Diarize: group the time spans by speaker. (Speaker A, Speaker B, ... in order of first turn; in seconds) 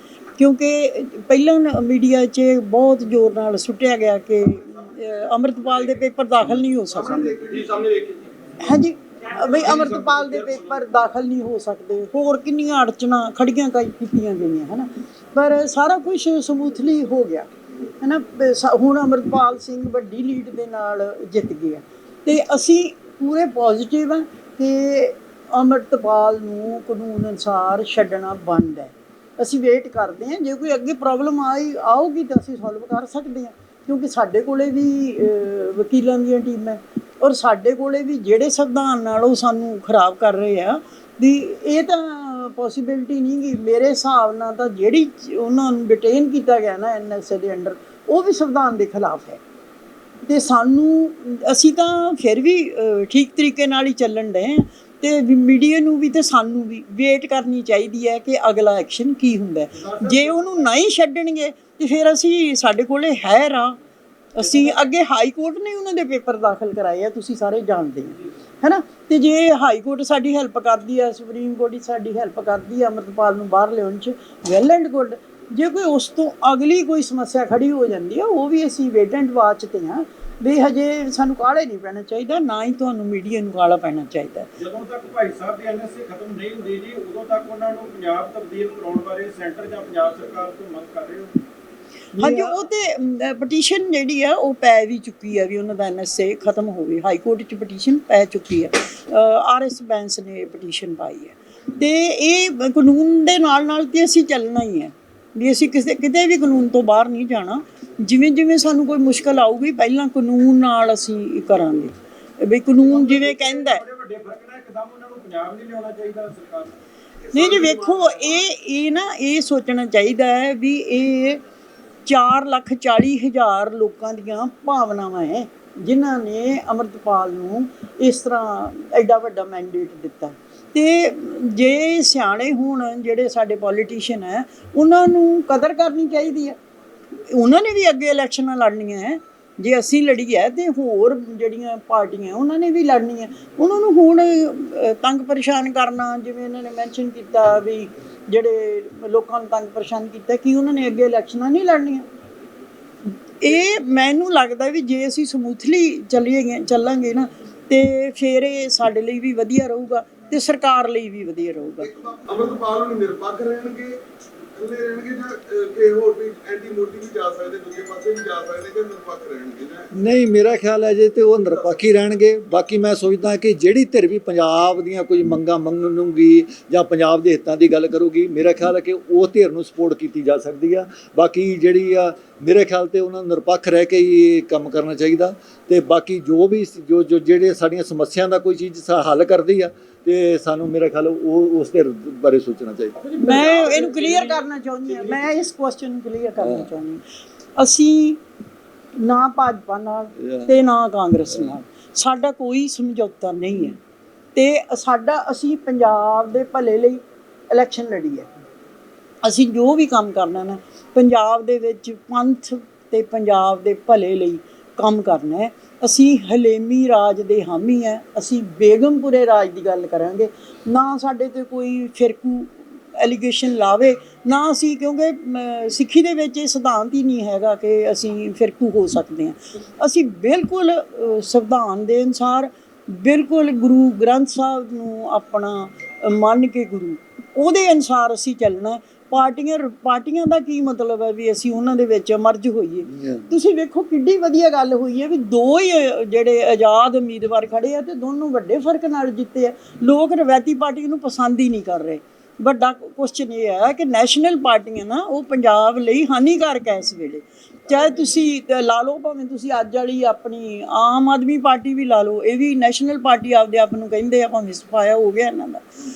Speaker A: 0.4-7.3, 8.6-49.4, 50.2-63.8, 64.3-84.5, 92.2-113.8, 117.3-121.4, 122.0-136.6, 137.2-152.0, 153.1-161.9, 193.2-197.0, 197.6-198.2, 199.0-203.8, 204.3-208.3, 209.2-265.6
Speaker B: 7.0-8.3, 9.3-10.6, 59.7-60.5, 64.5-64.7, 84.6-91.4, 92.1-92.6, 112.8-116.7, 193.0-194.4
Speaker C: 7.2-7.7, 117.2-118.3, 161.8-164.0, 164.5-169.9
Speaker D: 169.9-193.0, 196.4-196.7, 200.2-200.5, 201.3-201.6, 242.9-243.3